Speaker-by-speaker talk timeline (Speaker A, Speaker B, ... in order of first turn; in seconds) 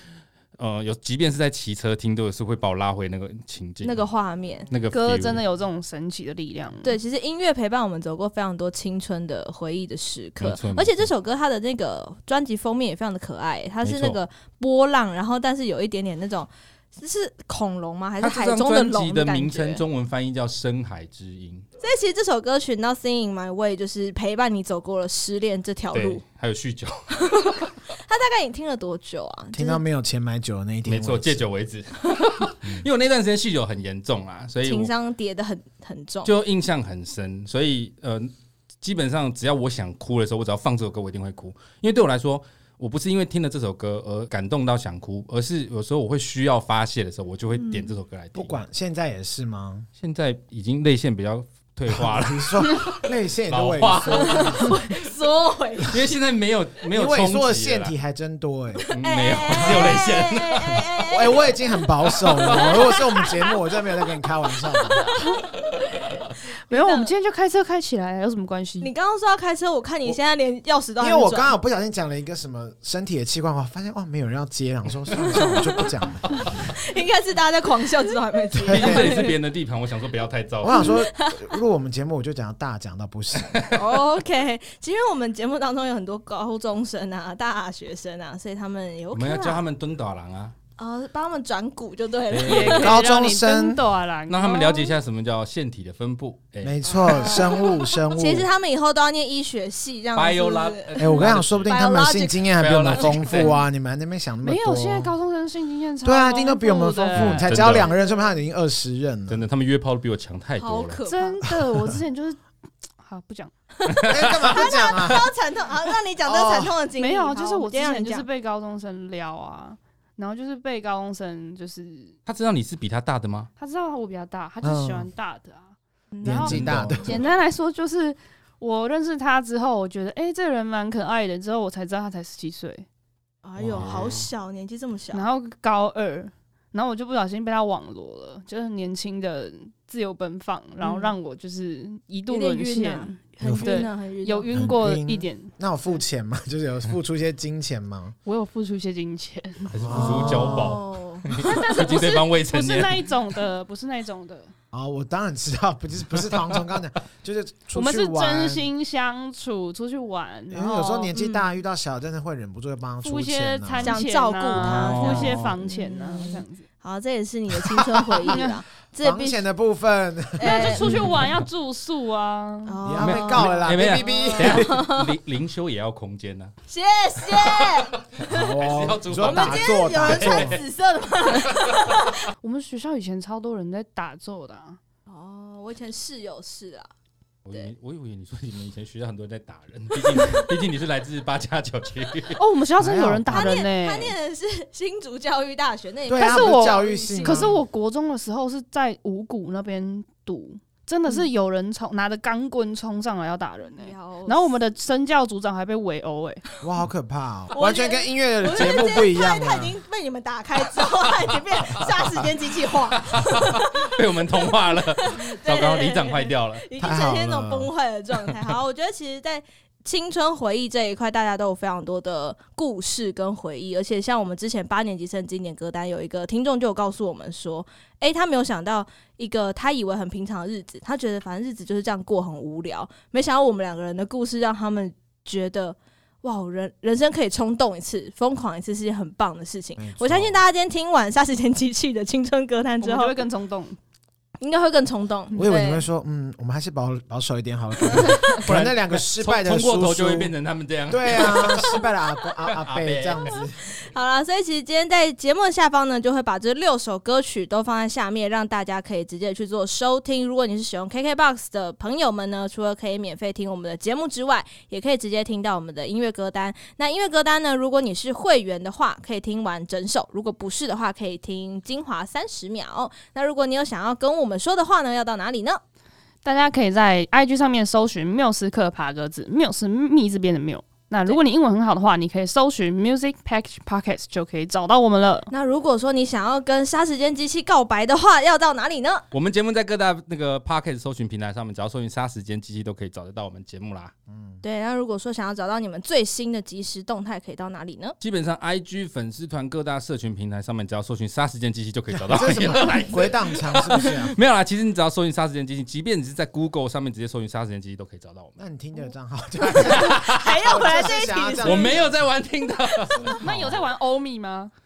Speaker A: 0.6-4.0, 4.7-5.4, 10.4-11.1, 13.8-14.2, 18.2-21.7, 25.9-27.7, 30.9-34.9, 36.2-48.6, 50.0-54.7, 55.8-57.9, 58.9-60.8, 62.3-62.9, 78.7-81.0, 83.4-83.8, 89.1-90.5, 92.3-92.9, 94.3-96.8, 100.2-101.8, 102.6-103.6, 107.1-107.9, 109.3-111.0, 113.9-114.5, 122.3-123.5, 126.5-127.3, 133.6-134.3, 149.7-153.4, 156.2-156.7, 164.5-165.6, 170.8-171.4, 173.0-176.5, 177.3-180.6, 181.5-181.8, 187.4-192.4, 213.1-216.7, 248.3-251.8, 252.5-253.3, 289.1-293.9, 298.0-308.4, 309.6-310.4, 311.4-313.6
Speaker B: 3.8-4.7, 6.8-19.8, 21.8-26.2, 27.2-29.8, 34.6-36.3, 47.5-47.9, 54.1-56.0, 58.8-67.1, 68.8-71.5, 75.2-75.9, 76.6-79.4, 80.7-81.5, 83.7-89.6, 90.8-92.9, 96.8-103.5, 107.8-108.2, 110.6-111.4, 113.8-118.3, 126.1-126.6, 133.4-135.2, 140.8-141.1, 142.3-144.6, 149.9-151.3, 161.2-161.6, 163.8-169.4, 170.4-170.9, 172.7-175.1, 176.7-178.4, 179.2-182.2, 185.1-186.9, 193.3-197.5, 203.8-204.5, 207.5-243.2, 244.4-245.8, 253.3-275.6, 285.3-289.1, 294.4-298.0, 309.6-311.9, 312.8-313.2
Speaker C: 4.9-7.0, 66.7-68.9, 92.5-95.0, 104.4-107.7, 111.1-112.4, 113.0-113.5, 117.0-122.2, 123.6-132.9, 135.1-145.5, 148.2-149.9, 151.3-154.5, 157.7-161.1, 163.0-166.7, 168.3-168.6, 170.4-173.7, 182.4-184.8, 192.4-194.1, 196.2-206.4, 242.8-243.8, 276.2-285.3, 313.2-314.5
Speaker D: 29.5-31.4, 48.4-49.9, 51.9-54.8, 56.9-58.9, 59.5-60.3, 61.1-65.1, 71.0-76.4, 78.6-79.2, 80.6-83.7, 92.7-93.8, 96.6-98.5, 101.0-105.1, 106.0-109.5, 111.5-112.0, 114.1-115.3, 116.2-116.8, 124.6-125.1, 126.2-127.2, 133.7-134.2, 143.4-143.9, 144.5-148.2, 149.8-150.8, 154.7-158.7, 160.5-164.0, 169.0-171.0, 172.8-174.8, 178.2-180.6, 192.8-193.6, 196.1-197.6, 206.6-209.8, 216.8-217.7, 239.8-240.4, 245.3-250.3, 250.9-253.6, 294.1-294.4, 301.9-304.2, 308.4-312.1